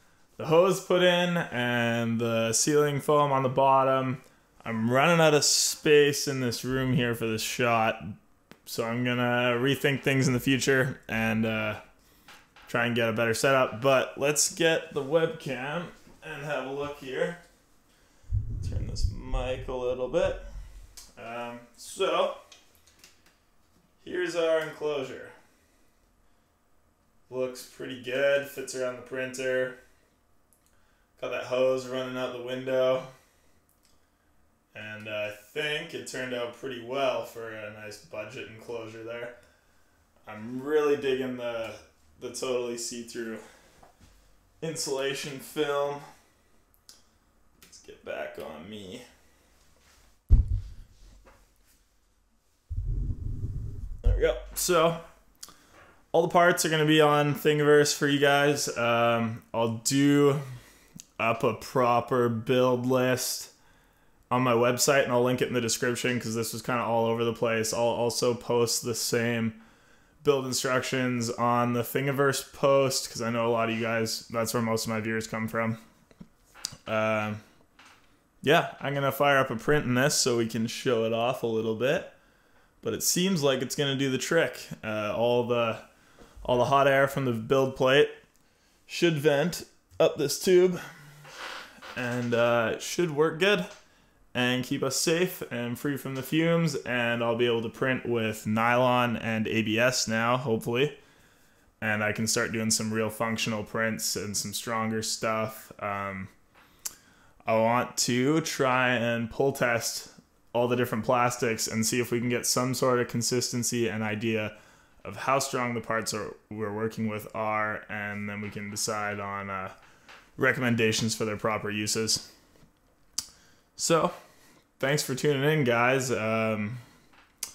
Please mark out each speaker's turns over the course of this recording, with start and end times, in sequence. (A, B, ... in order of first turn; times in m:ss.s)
0:00.4-0:11.8 A
0:12.7-0:17.4 A
0:18.6-0:20.4 A
0:21.2-0:22.4 A
0:24.0-0:25.3 A
0:27.3-0:29.8 A
0:31.2-0:33.1 A
0:34.7-0:39.3 A
0:40.2-0:43.4 A
0:44.6-0:46.0 A
0:47.6-0:49.0 A
0:54.0-0:55.0 A
0:56.1-1:00.4 A
1:01.2-1:03.5 A
1:04.3-1:09.6 A
1:10.2-1:15.8 A
1:16.9-1:17.4 A
1:18.4-1:22.1 A
1:22.8-1:25.8 A
1:26.4-1:28.2 A
1:28.9-1:30.8 A
1:31.9-1:33.7 A
1:34.3-1:41.0 A
1:41.8-1:46.3 A
1:47.4-1:59.8 A
2:00.4-2:02.3 A
2:03.8-2:04.1 A
2:04.8-2:06.8 A